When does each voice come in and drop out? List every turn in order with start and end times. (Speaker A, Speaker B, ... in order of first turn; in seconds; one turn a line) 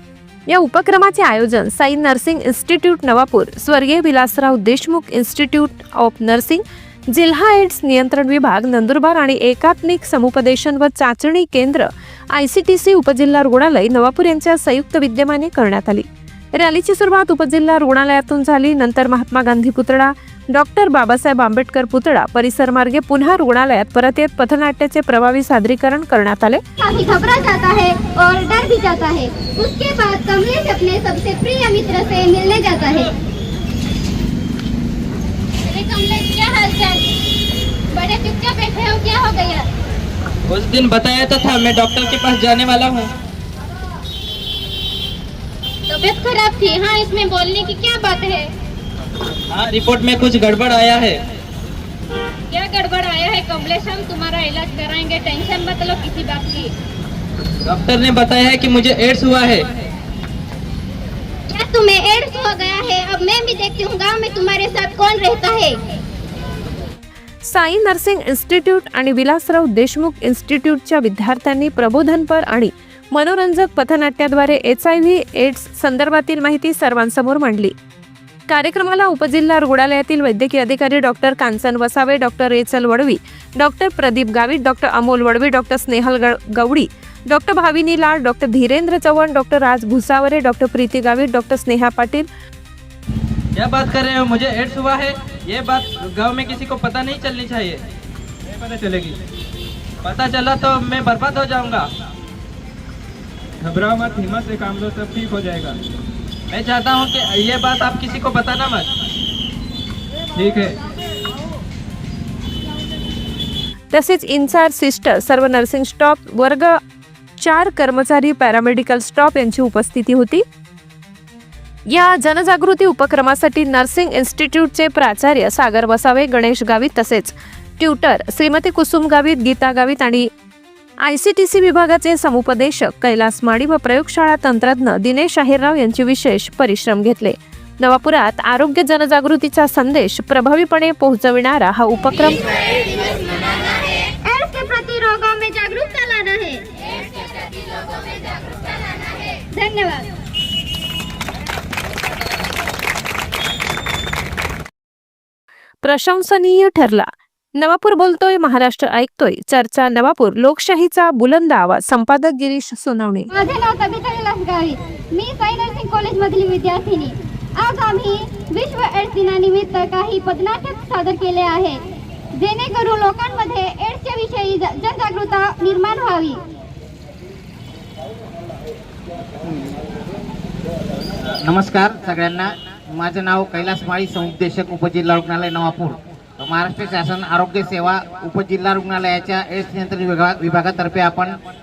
Speaker A: 0.5-26.6
Speaker B: 26.8-33.1
Speaker B: 35.6-37.1
Speaker B: 37.9-39.7
Speaker C: 40.5-43.1
Speaker B: 45.9-48.5
Speaker C: 49.5-51.2
Speaker B: 52.5-56.7
Speaker C: 57.6-59.7
Speaker B: 61.5-65.8
Speaker A: 67.4-77.7
Speaker A: 78.5-92.3
Speaker C: 93.6-97.8
Speaker D: 98.5-99.2
Speaker C: 100.0-101.9
Speaker D: 103.6-105.8
Speaker C: 106.5-108.9
Speaker D: 110.3-110.8
Speaker A: 113.9-116.8
Speaker A: 117.4-120.4
Speaker A: 121.9-130.3
Speaker A: 131.0-142.4
Speaker B: 144.2-146.7
Speaker B: 149.5-150.1
Speaker A: 155.8-163.3
Speaker B: 163.3-171.8
Speaker B: 172.4-176.4
Speaker E: 181.4-191.3